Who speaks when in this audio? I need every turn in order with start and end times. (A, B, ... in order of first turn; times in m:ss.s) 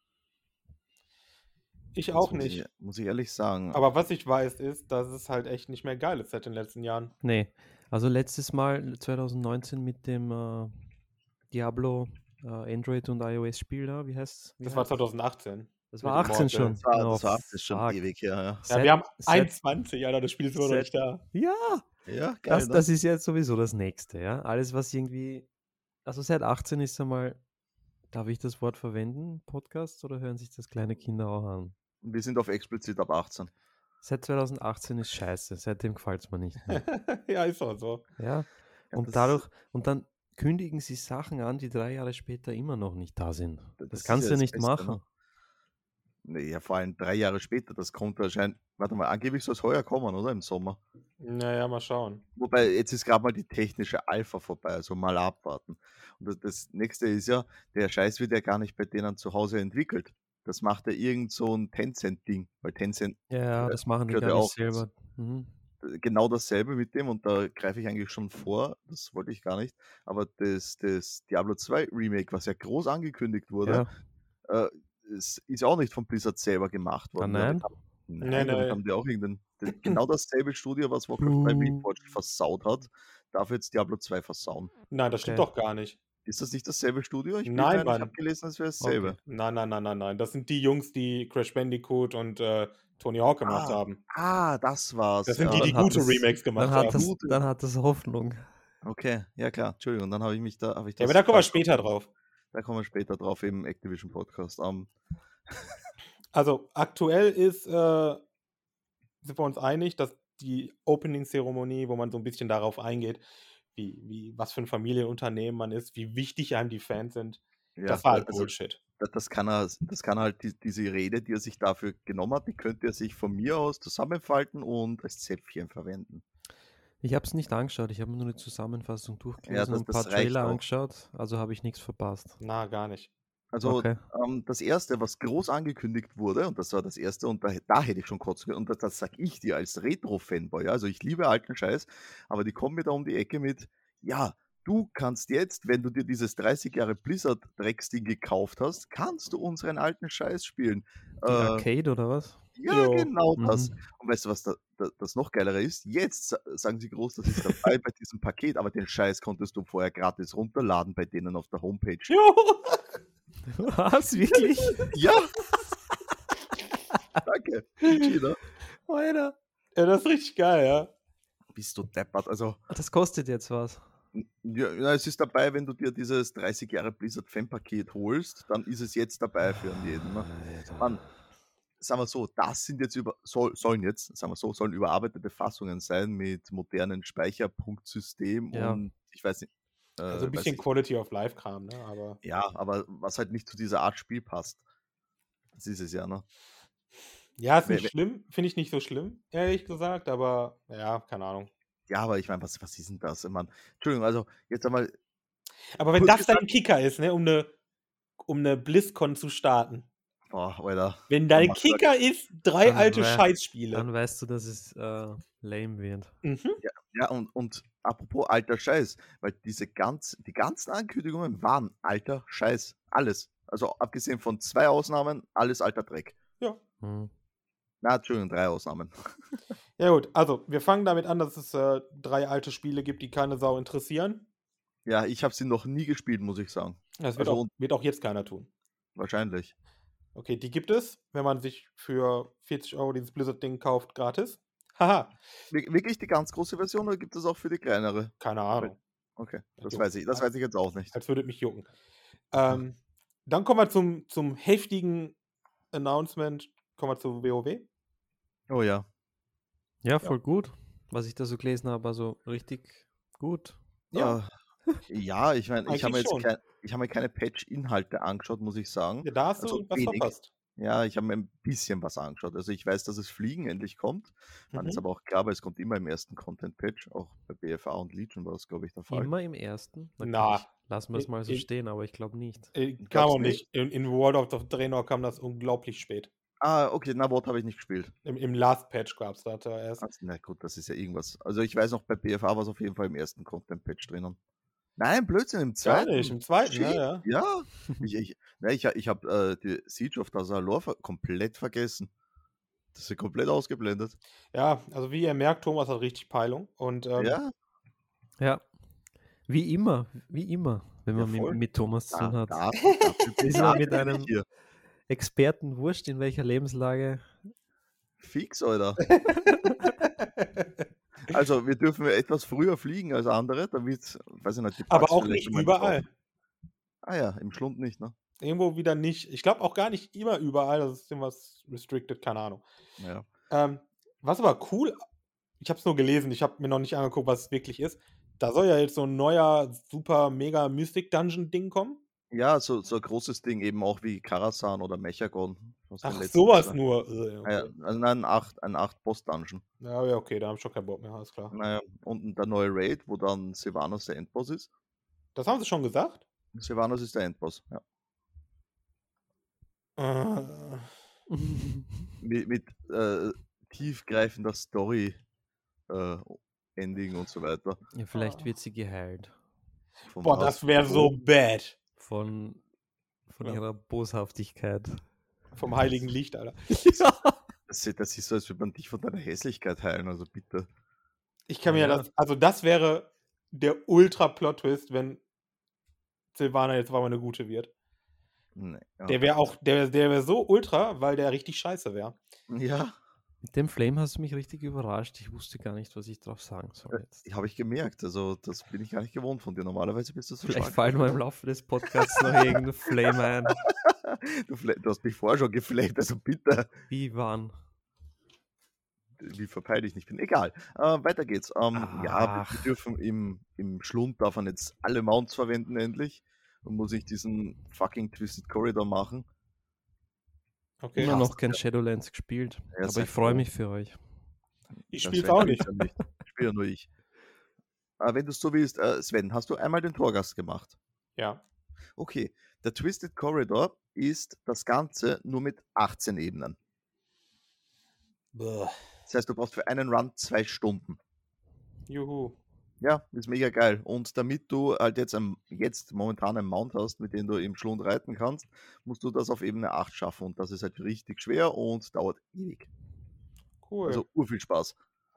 0:01.9-0:02.6 A
0:02.1-0:03.8 B
0:03.7-0:07.1 A
0:07.2-0:10.7 C
0:11.5-0:15.0 C
0:14.6-0:16.8 A
0:15.9-0:18.0 C
0:16.1-0:18.7 B
0:18.6-0:19.5 C
0:18.7-0:21.2 A
0:20.6-0:21.9 C
0:22.1-0:22.8 B
0:22.5-0:25.5 C
0:26.1-0:27.4 C
0:28.1-0:31.8 C
0:32.0-0:33.5 B
0:34.0-0:36.8 C
0:36.7-0:38.0 A
0:38.2-0:45.0 C
0:38.9-0:39.4 B
0:43.8-0:45.0 B
0:46.2-0:50.8 B
0:51.2-0:52.2 A
0:52.4-1:04.8 B
1:03.3-1:05.5 C
1:05.8-1:13.8 B
1:14.5-1:24.7 B
1:17.2-1:17.7 C
1:18.2-1:18.8 A
1:21.2-1:21.8 C
1:24.9-1:26.0 A
1:25.2-1:25.5 C
1:26.3-1:29.2 B
1:27.4-1:28.1 A
1:28.8-1:29.2 C
1:29.2-1:34.0 A
1:33.4-1:35.8 B
1:35.3-1:37.0 A
1:35.4-1:38.5 C
1:36.7-1:37.4 B
1:38.8-1:41.6 B
1:41.0-1:42.1 A
1:42.5-1:44.9 B
1:46.3-1:48.2 A
1:49.2-1:58.8 A
1:57.8-2:06.2 B
2:07.0-2:12.4 C
2:09.5-2:10.6 B
2:12.4-2:13.1 A
2:13.5-2:31.7 B
2:13.6-2:14.0 C
2:31.3-2:32.4 C
2:32.6-2:42.2 B
2:32.7-2:33.1 A
2:33.4-2:33.7 C
2:42.1-2:42.8 A
2:43.5-2:44.9 C
2:44.9-2:45.3 B
2:47.2-2:48.4 B
2:48.9-2:49.2 C
2:49.1-2:50.9 A
2:51.5-2:52.6 B
2:52.7-2:53.8 C
2:54.1-3:00.3 B
3:00.3-3:01.0 C
3:01.8-3:10.6 B
3:08.5-3:08.8 C
3:10.1-3:12.2 A
3:12.2-3:14.6 B
3:15.5-3:16.2 B
3:17.4-3:21.5 A
3:17.6-3:17.9 B
3:21.9-3:24.9 B
3:25.8-3:27.5 A
3:26.0-3:26.4 B
3:28.3-3:29.9 A
3:30.3-3:31.8 B
3:31.1-3:33.8 A
3:32.6-3:36.1 C
3:36.2-3:36.6 A
3:36.6-3:46.2 B
3:46.8-3:47.1 C
3:47.8-3:48.9 B
3:49.8-3:54.2 A
3:54.8-3:57.5 B
3:57.0-3:58.5 A
3:59.0-3:59.5 B
4:00.2-4:05.2 A
4:05.5-4:10.9 B
4:08.2-4:08.8 A
4:09.6-4:10.3 A
4:10.9-4:11.7 A
4:12.3-4:15.2 A
4:15.7-4:17.7 A
4:18.5-4:18.9 B
4:19.8-4:23.6 C
4:23.9-4:24.2 A
4:23.9-4:24.3 B
4:24.9-4:39.1 B
4:25.6-4:26.3 A
4:29.0-4:30.3 A
4:34.5-4:34.8 A
4:38.9-4:42.5 C
4:40.0-4:41.4 A
4:42.5-4:46.1 A
4:42.8-4:43.4 B
4:46.4-4:47.9 B
4:48.0-4:49.8 A
4:49.8-4:54.2 B
4:54.8-5:01.9 B
4:55.6-4:57.0 A
5:02.7-5:04.0 B
5:04.3-5:07.2 A
5:07.0-5:07.3 B
5:08.2-5:08.4 C
5:09.3-5:12.6 C
5:10.9-5:14.2 B
5:13.2-5:14.1 C
5:14.9-5:17.1 C
5:18.0-5:18.8 B
5:18.8-5:20.6 A
5:21.1-5:25.8 B
5:24.7-5:25.9 A
5:26.8-5:27.9 B
5:28.2-5:32.4 A
5:32.8-5:33.0 B
5:33.3-5:34.8 A
5:35.4-5:41.8 A
5:42.1-5:46.6 B
5:45.8-5:47.5 A
5:47.2-5:49.4 B
5:49.6-5:51.3 A
5:51.3-5:54.5 B
5:55.1-5:56.0 A
5:56.3-5:57.6 B
5:59.8-6:00.7 A
6:01.1-6:01.9 C
6:02.0-6:05.0 B
6:05.7-6:07.6 B
6:07.7-6:09.1 C
6:07.9-6:08.3 A
6:09.9-6:10.9 B
6:10.0-6:11.6 A
6:11.8-6:12.4 C
6:13.1-6:14.8 C
6:15.4-6:16.4 A
6:16.5-6:17.2 C
6:17.5-6:20.5 B
6:21.3-6:25.0 A
6:21.4-6:21.9 C
6:26.1-6:27.5 A
6:28.4-6:29.3 B
6:28.9-6:32.0 A
6:32.3-6:32.8 B
6:33.2-6:37.0 C
6:36.7-6:41.0 B
6:40.3-6:43.4 C
6:41.7-6:42.4 B
6:43.4-6:46.5 B
6:46.7-6:47.3 C
6:49.0-6:59.1 B
6:51.5-6:52.5 C
7:00.6-7:00.9 A
7:00.8-7:01.4 B
7:00.8-7:03.8 C
7:02.5-7:03.2 B
7:04.7-7:05.5 A
7:04.8-7:06.7 B
7:07.8-7:10.5 B
7:11.8-7:16.4 B
7:18.1-7:18.6 A
7:18.9-7:20.8 B
7:21.7-7:22.2 A
7:22.6-7:32.5 B
7:33.4-7:33.8 A
7:33.6-7:34.6 B